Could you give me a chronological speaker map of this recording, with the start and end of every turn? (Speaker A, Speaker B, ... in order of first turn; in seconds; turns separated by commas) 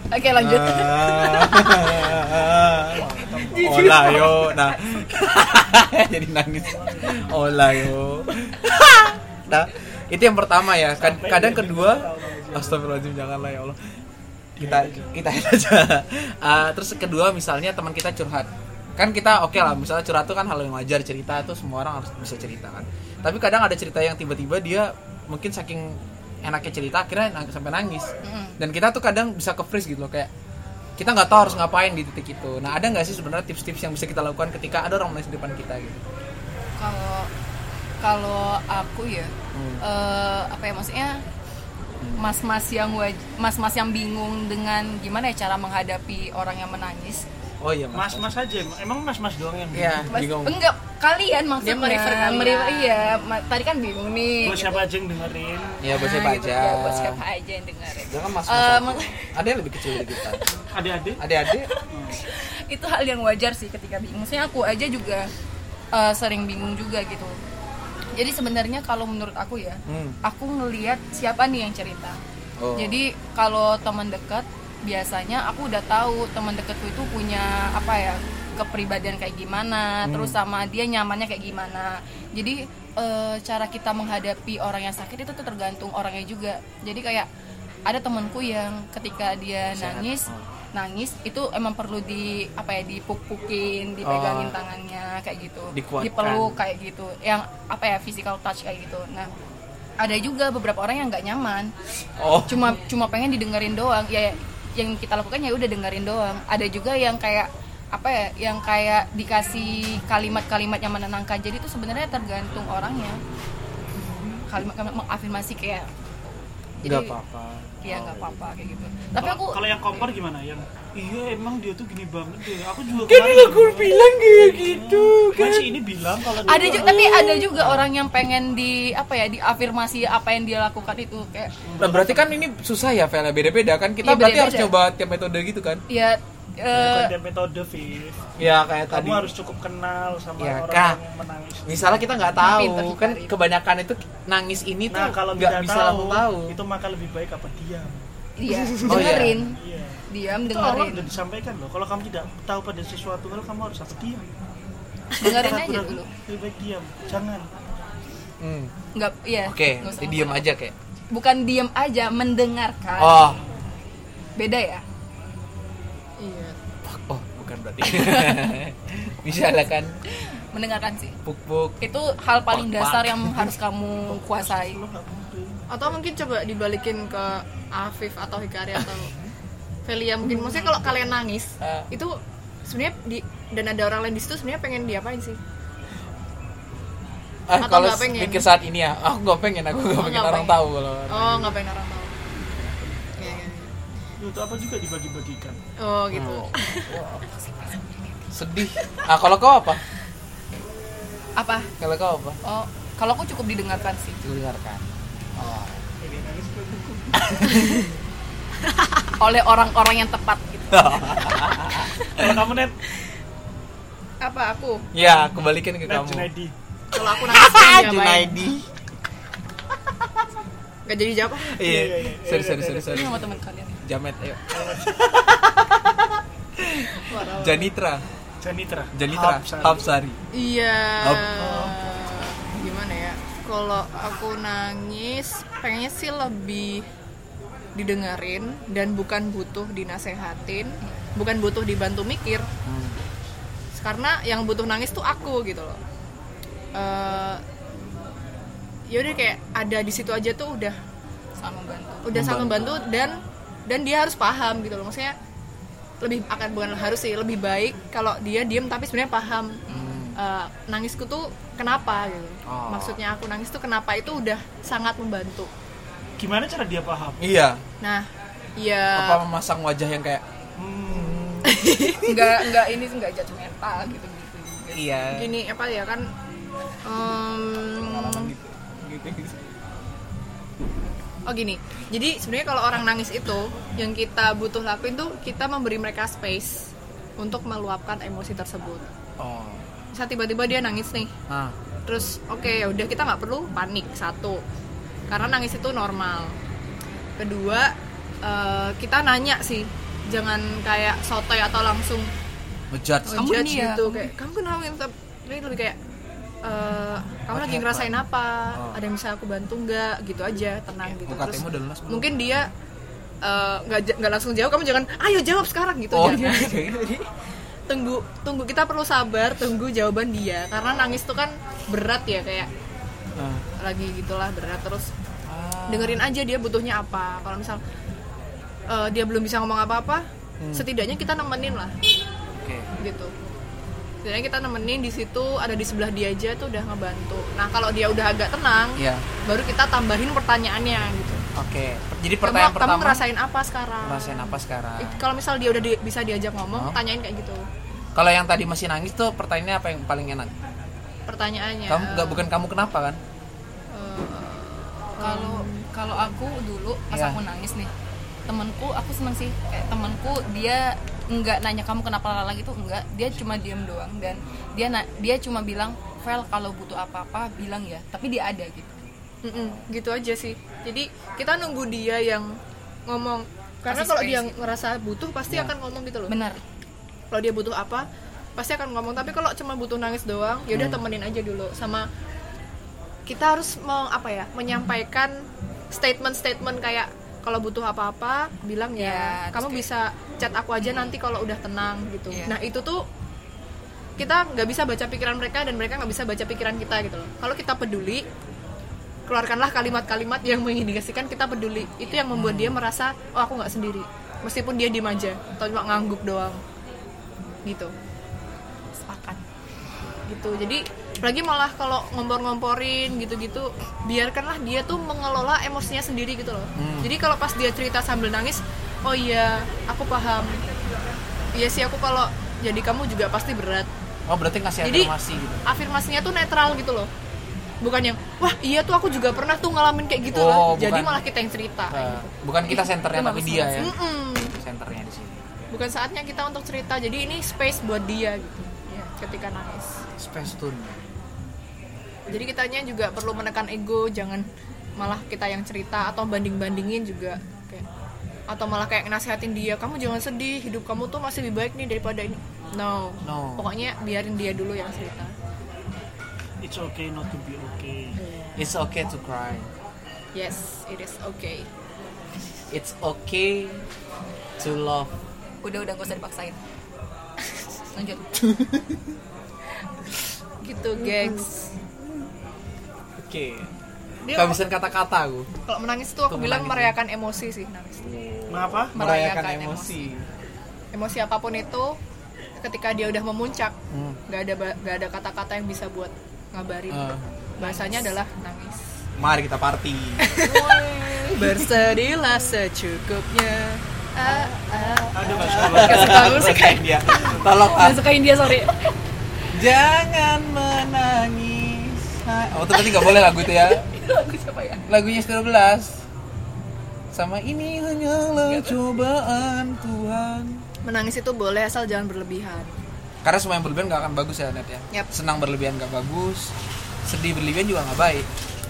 Speaker A: 0.1-2.0, Speaker B: 0.3-3.1, Speaker C: 2.8-3.9, Speaker A: 3.5-4.8, Speaker B: 3.6-13.8, Speaker C: 6.6-7.2, Speaker C: 10.9-12.8, Speaker C: 14.6-15.2, Speaker B: 14.6-30.3, Speaker A: 28.2-28.6, Speaker B: 31.0-36.0, Speaker A: 36.8-37.3, Speaker A: 38.0-41.2, Speaker B: 39.5-39.8, Speaker B: 42.0-42.3, Speaker A: 42.2-47.2, Speaker B: 47.6-48.3, Speaker C: 47.9-50.1, Speaker B: 49.7-50.6, Speaker A: 50.1-54.9, Speaker D: 51.6-53.2, Speaker C: 54.4-55.8, Speaker B: 55.8-57.2, Speaker A: 55.9-59.3, Speaker B: 58.0-60.4, Speaker A: 59.8-60.4, Speaker C: 60.7-61.2, Speaker B: 61.2-61.7, Speaker A: 61.5-65.3, Speaker C: 61.9-62.2, Speaker A: 65.9-67.3, Speaker A: 68.1-72.2, Speaker B: 69.9-70.2, Speaker B: 72.6-73.0, Speaker A: 72.8-87.3, Speaker B: 80.0-80.4, Speaker A: 87.9-99.3, Speaker B: 89.7-90.5, Speaker B: 94.0-94.6, Speaker B: 95.7-96.6, Speaker A: 100.0-101.7, Speaker B: 102.2-102.8, Speaker A: 102.5-113.2, Speaker A: 114.5-115.9, Speaker A: 116.8-117.1, Speaker B: 116.8-118.4, Speaker A: 117.8-120.0, Speaker C: 119.2-126.9, Speaker B: 122.9-125.7, Speaker A: 126.5-131.5, Speaker B: 126.5-127.9, Speaker C: 131.6-132.3, Speaker B: 131.8-135.8, Speaker A: 134.0-134.7, Speaker A: 135.9-137.1, Speaker C: 136.7-138.3, Speaker B: 138.4-139.3, Speaker C: 138.9-142.4, Speaker B: 140.4-141.0, Speaker B: 141.7-146.6, Speaker A: 142.4-143.3, Speaker C: 144.9-148.0, Speaker A: 148.4-149.6, Speaker B: 148.8-149.4, Speaker C: 148.8-154.3, Speaker A: 150.1-151.1, Speaker A: 155.2-156.1, Speaker C: 155.2-157.5, Speaker B: 158.4-158.7, Speaker A: 158.9-160.4, Speaker B: 159.4-160.7, Speaker A: 161.1-163.4, Speaker B: 163.0-163.4, Speaker A: 164.4-164.8, Speaker D: 166.2-166.6, Speaker B: 166.8-169.9, Speaker A: 167.8-168.5, Speaker A: 170.5-171.2, Speaker B: 171.2-171.8, Speaker A: 171.8-174.8, Speaker B: 172.5-173.5, Speaker C: 174.0-176.0, Speaker D: 175.7-179.1, Speaker D: 179.8-185.4, Speaker B: 181.6-181.9, Speaker B: 187.5-191.6, Speaker D: 187.6-188.4, Speaker D: 189.9-192.5, Speaker D: 193.1-193.7, Speaker C: 194.2-195.6, Speaker D: 195.8-197.0, Speaker B: 196.1-197.2, Speaker A: 197.3-198.2, Speaker B: 198.3-199.8, Speaker A: 201.4-201.7, Speaker B: 201.8-202.4, Speaker A: 202.4-204.2, Speaker B: 204.2-205.8, Speaker C: 206.0-207.2, Speaker B: 207.2-207.9, Speaker A: 209.2-211.4, Speaker B: 210.7-212.0, Speaker C: 212.1-212.7, Speaker D: 214.2-214.8, Speaker B: 214.9-216.3, Speaker C: 215.0-215.3, Speaker C: 215.8-216.5, Speaker D: 216.9-218.4, Speaker B: 217.2-218.7, Speaker D: 220.9-221.7, Speaker B: 221.5-223.2, Speaker C: 221.6-223.3, Speaker A: 222.9-223.8, Speaker B: 223.8-228.0, Speaker C: 224.5-225.1, Speaker C: 227.1-227.7, Speaker C: 228.4-229.8, Speaker B: 228.9-230.2, Speaker D: 230.3-236.9, Speaker B: 231.0-231.4, Speaker C: 231.4-231.8, Speaker D: 237.7-242.5, Speaker B: 242.6-243.0, Speaker D: 243.7-245.8, Speaker D: 246.7-247.4, Speaker D: 248.9-250.8, Speaker A: 251.4-252.1, Speaker D: 252.0-255.1, Speaker B: 252.1-252.9, Speaker D: 256.0-259.6, Speaker A: 259.7-260.0, Speaker B: 259.7-260.2, Speaker D: 260.1-265.5, Speaker B: 262.4-263.0, Speaker C: 266.2-267.2, Speaker B: 267.2-267.6, Speaker D: 267.8-269.2, Speaker B: 268.9-270.2, Speaker C: 270.6-271.2, Speaker B: 270.9-272.3, Speaker D: 271.4-272.1, Speaker A: 272.0-274.8, Speaker B: 274.7-275.3, Speaker D: 275.1-276.1, Speaker D: 276.8-278.3, Speaker B: 277.8-279.4, Speaker D: 281.3-288.9, Speaker B: 289.2-289.6, Speaker D: 289.9-291.1, Speaker B: 291.3-291.6, Speaker D: 291.9-294.4, Speaker D: 295.1-296.4, Speaker D: 297.2-302.1, Speaker B: 302.7-303.4, Speaker D: 303.0-305.8, Speaker A: 303.1-304.1, Speaker D: 306.4-312.5, Speaker B: 307.3-308.0, Speaker B: 308.5-308.8, Speaker B: 310.9-312.2, Speaker D: 313.2-317.1, Speaker B: 315.9-316.9, Speaker D: 317.7-322.5, Speaker B: 323.2-323.4, Speaker D: 323.6-324.9, Speaker B: 325.3-326.1, Speaker D: 325.7-327.6, Speaker D: 328.7-331.8, Speaker B: 330.4-330.7, Speaker B: 332.3-332.7, Speaker D: 332.8-333.1, Speaker D: 334.0-341.2, Speaker B: 338.8-339.1, Speaker B: 341.3-343.0, Speaker D: 342.2-347.4, Speaker B: 343.8-345.0, Speaker B: 346.5-346.8, Speaker B: 347.9-350.3, Speaker D: 351.1-352.2, Speaker B: 351.7-353.0, Speaker D: 353.7-355.6, Speaker A: 355.0-357.7, Speaker B: 356.9-357.2, Speaker A: 358.3-368.8, Speaker D: 369.2-372.3, Speaker D: 372.9-376.1, Speaker A: 373.7-374.4, Speaker B: 375.3-375.5, Speaker A: 376.1-376.4, Speaker D: 377.1-377.9, Speaker D: 378.4-381.9, Speaker B: 380.5-380.8, Speaker D: 383.1-392.9, Speaker A: 388.8-389.7, Speaker A: 390.6-390.9, Speaker A: 392.1-392.4, Speaker D: 394.0-398.0, Speaker D: 399.1-406.4, Speaker B: 402.1-402.6, Speaker D: 407.4-407.7, Speaker A: 408.8-409.2, Speaker D: 410.1-420.4, Speaker B: 416.6-416.9, Speaker D: 421.3-423.7, Speaker B: 424.1-425.4, Speaker D: 424.6-424.9, Speaker D: 425.4-426.9, Speaker D: 427.6-432.1, Speaker B: 430.1-431.0, Speaker B: 431.7-433.7, Speaker A: 432.5-433.7, Speaker D: 433.6-434.3, Speaker B: 434.4-435.2, Speaker D: 435.5-439.8, Speaker B: 440.0-440.8, Speaker D: 442.1-444.3, Speaker D: 444.8-447.6, Speaker D: 448.3-455.1, Speaker B: 453.0-453.5, Speaker C: 456.4-458.0, Speaker D: 458.0-458.3, Speaker B: 458.4-459.5, Speaker D: 460.1-461.5, Speaker B: 462.5-463.6, Speaker B: 464.4-464.9, Speaker A: 465.4-466.4, Speaker A: 467.7-468.2, Speaker B: 468.3-468.8, Speaker D: 470.4-471.5, Speaker B: 470.8-471.3, Speaker B: 473.0-473.5, Speaker D: 474.0-474.4, Speaker B: 474.1-475.3, Speaker D: 475.5-477.9, Speaker B: 476.1-476.7, Speaker B: 477.8-480.1, Speaker C: 478.3-478.7, Speaker A: 478.7-479.9, Speaker D: 480.7-481.8, Speaker D: 482.4-483.6, Speaker B: 483.7-484.0, Speaker D: 484.1-488.7, Speaker B: 486.7-487.1, Speaker A: 487.4-488.0, Speaker B: 489.0-492.3, Speaker D: 490.0-496.7, Speaker B: 494.0-497.9, Speaker C: 494.9-496.2, Speaker A: 495.9-496.4, Speaker A: 497.4-498.7, Speaker B: 499.3-503.7, Speaker A: 502.5-504.6, Speaker B: 504.7-505.8, Speaker B: 506.9-510.4, Speaker A: 508.2-508.6, Speaker D: 510.6-512.5, Speaker B: 513.0-516.3, Speaker B: 516.8-518.1